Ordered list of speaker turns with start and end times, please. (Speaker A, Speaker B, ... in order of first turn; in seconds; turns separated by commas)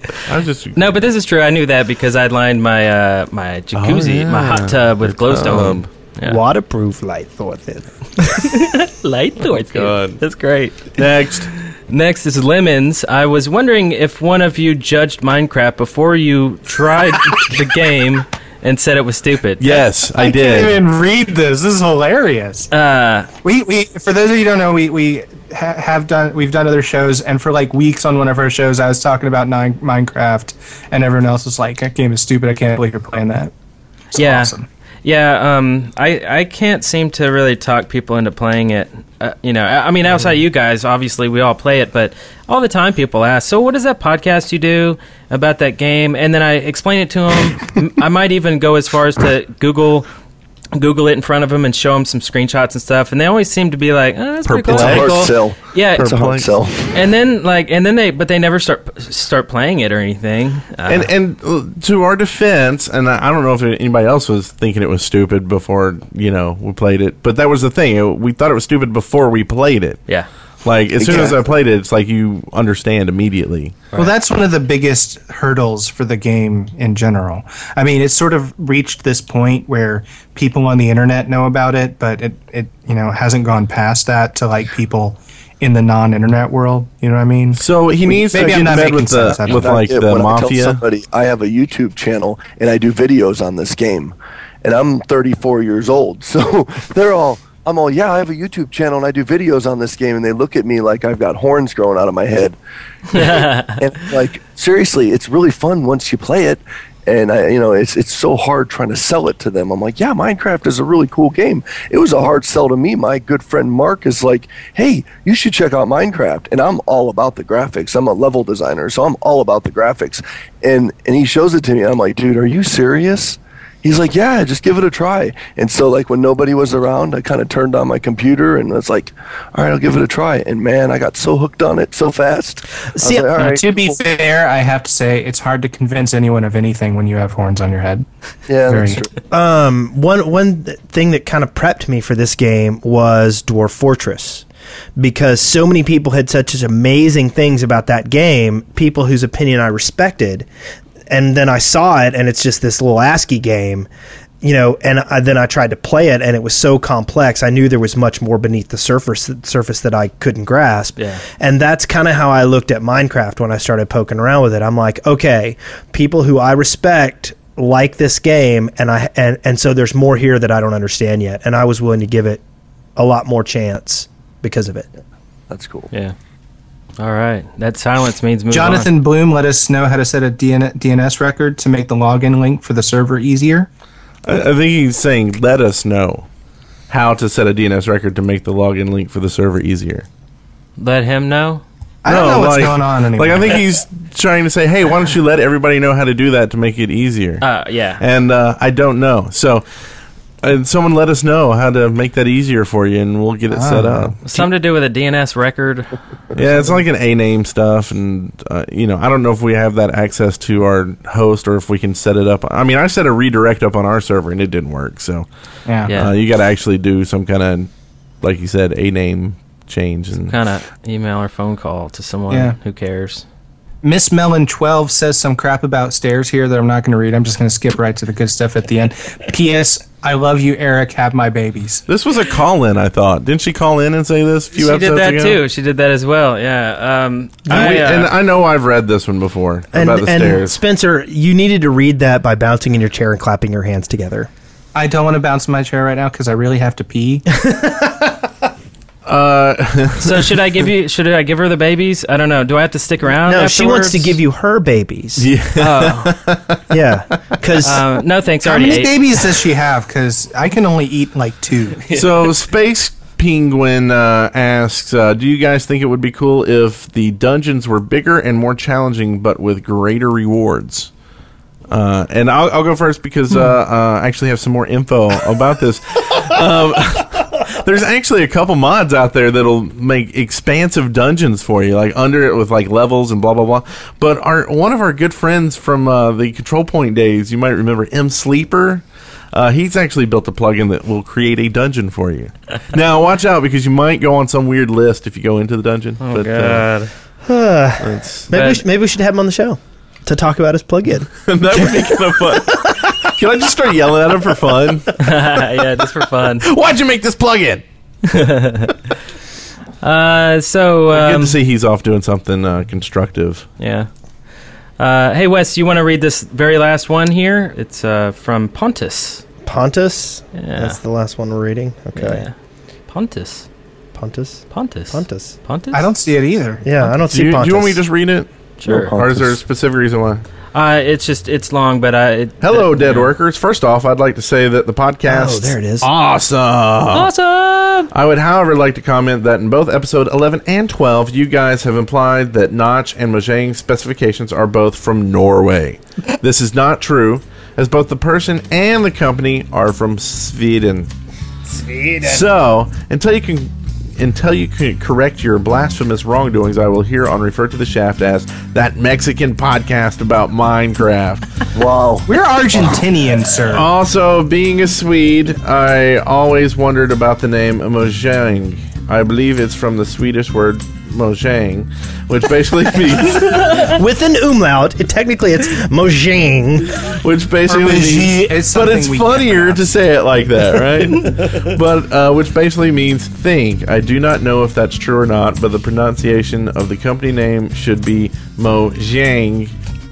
Speaker A: 0.2-0.8, Speaker B: 0.8-6.4, Speaker A: 3.8-5.8, Speaker C: 6.2-8.6, Speaker B: 8.4-10.8, Speaker A: 9.5-10.2, Speaker A: 10.9-11.5, Speaker B: 11.9-19.7, Speaker A: 19.6-20.8, Speaker D: 20.1-22.7, Speaker B: 22.7-23.3, Speaker D: 23.4-33.5, Speaker B: 34.1-34.5, Speaker D: 34.1-34.7, Speaker B: 35.0-50.0, Speaker B: 50.7-56.0, Speaker A: 54.4-55.3, Speaker E: 54.7-56.9, Speaker A: 56.0-56.5, Speaker B: 56.9-61.1, Speaker A: 60.9-70.0, Speaker A: 70.6-73.8, Speaker D: 71.0-71.3, Speaker D: 74.0-87.6, Speaker A: 87.5-90.8, Speaker D: 88.3-89.8, Speaker E: 88.3-102.5, Speaker E: 103.1-133.9, Speaker B: 103.1-103.8, Speaker C: 132.9-133.3, Speaker D: 133.3-138.1, Speaker E: 138.5-139.1, Speaker D: 138.7-139.0, Speaker C: 139.3-144.4, Speaker C: 145.0-150.5, Speaker C: 151.1-153.9, Speaker C: 154.4-172.4, Speaker B: 161.0-161.2, Speaker C: 172.9-174.9, Speaker E: 175.5-175.9, Speaker B: 177.0-178.9, Speaker D: 178.5-183.7, Speaker A: 184.2-186.3, Speaker A: 186.9-190.1, Speaker B: 190.8-191.6, Speaker D: 192.0-193.6, Speaker A: 192.1-197.4, Speaker B: 197.4-198.0, Speaker A: 198.0-199.6, Speaker A: 200.4-204.4, Speaker D: 203.5-204.2, Speaker B: 204.2-205.9, Speaker A: 206.3-215.2, Speaker D: 215.7-215.9, Speaker A: 215.9-217.7, Speaker A: 218.2-220.3, Speaker B: 220.2-223.2, Speaker D: 222.3-222.6, Speaker D: 223.8-231.8, Speaker A: 231.9-235.4, Speaker B: 234.5-238.1, Speaker C: 237.5-237.8, Speaker A: 237.5-240.6, Speaker C: 239.7-244.3, Speaker D: 244.7-247.2, Speaker C: 247.5-248.1, Speaker A: 249.0-250.4, Speaker B: 250.0-254.2, Speaker C: 253.2-255.3, Speaker A: 255.2-256.6, Speaker B: 255.6-256.2, Speaker C: 256.7-257.8, Speaker B: 257.6-259.2, Speaker D: 258.4-261.8, Speaker A: 261.9-270.9, Speaker A: 271.7-296.7, Speaker B: 296.0-296.9, Speaker C: 297.2-302.8, Speaker A: 297.8-298.3, Speaker B: 298.3-298.6, Speaker A: 301.2-305.0, Speaker B: 305.0-306.4, Speaker A: 306.4-307.6, Speaker B: 308.0-308.8, Speaker B: 309.8-311.4, Speaker A: 310.9-313.5, Speaker B: 313.6-313.9, Speaker B: 314.8-319.2, Speaker C: 319.4-322.2, Speaker B: 320.3-320.8, Speaker B: 321.9-322.3, Speaker B: 322.9-323.5, Speaker C: 323.9-325.4, Speaker B: 324.5-325.9, Speaker D: 325.7-326.7, Speaker C: 326.6-327.8, Speaker A: 327.1-330.2, Speaker B: 328.6-328.9, Speaker E: 328.6-329.4, Speaker B: 330.5-333.1, Speaker A: 332.4-337.1, Speaker C: 335.1-335.9, Speaker B: 336.9-337.9, Speaker A: 337.9-350.9, Speaker A: 352.0-361.2, Speaker E: 361.5-362.1, Speaker D: 362.1-363.6, Speaker A: 363.5-373.7, Speaker C: 373.4-376.8, Speaker A: 376.8-389.5, Speaker D: 377.5-379.6